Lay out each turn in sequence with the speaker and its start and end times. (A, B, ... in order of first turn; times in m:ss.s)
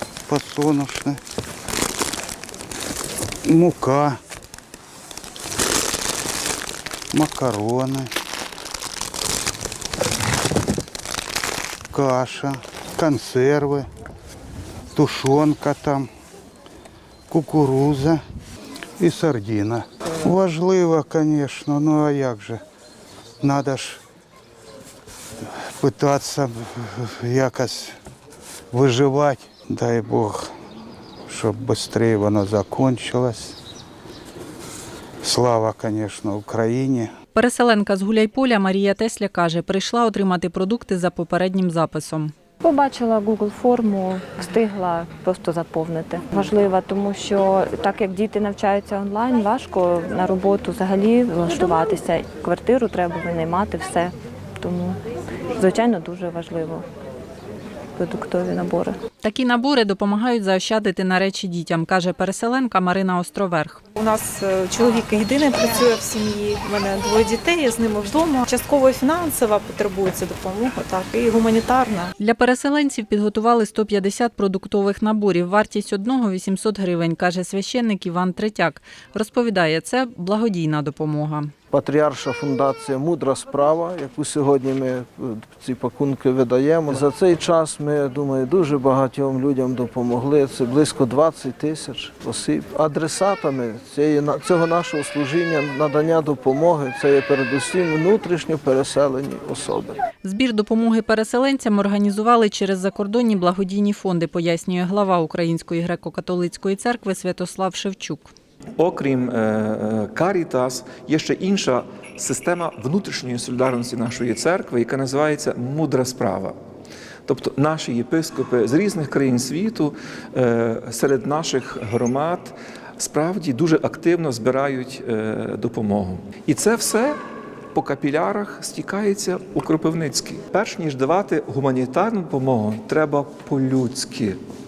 0:00.3-0:01.2 A
0:03.4-0:04.2 A
0:07.1-0:08.1 A
0:11.9-0:13.9 A
0:14.9-0:16.1 A
0:17.3-0:18.2 A
0:19.0-0:22.6 A
0:23.4-0:24.0 A
0:25.6-0:28.0 A
0:28.7-0:30.5 A
0:31.3-0:33.6 A
0:35.2-0:37.1 A
0:37.3-0:42.3 B
0:42.6-0:55.0 C
0:55.5-0:56.8 C
0:58.0-0:59.0 C
0:59.2-1:03.8 B
1:04.0-1:12.1 D
1:12.2-1:21.5 B
1:21.7-1:40.0 E
1:40.2-1:48.3 B
1:48.8-1:56.6 F
1:57.3-2:07.2 F
2:07.7-2:14.4 F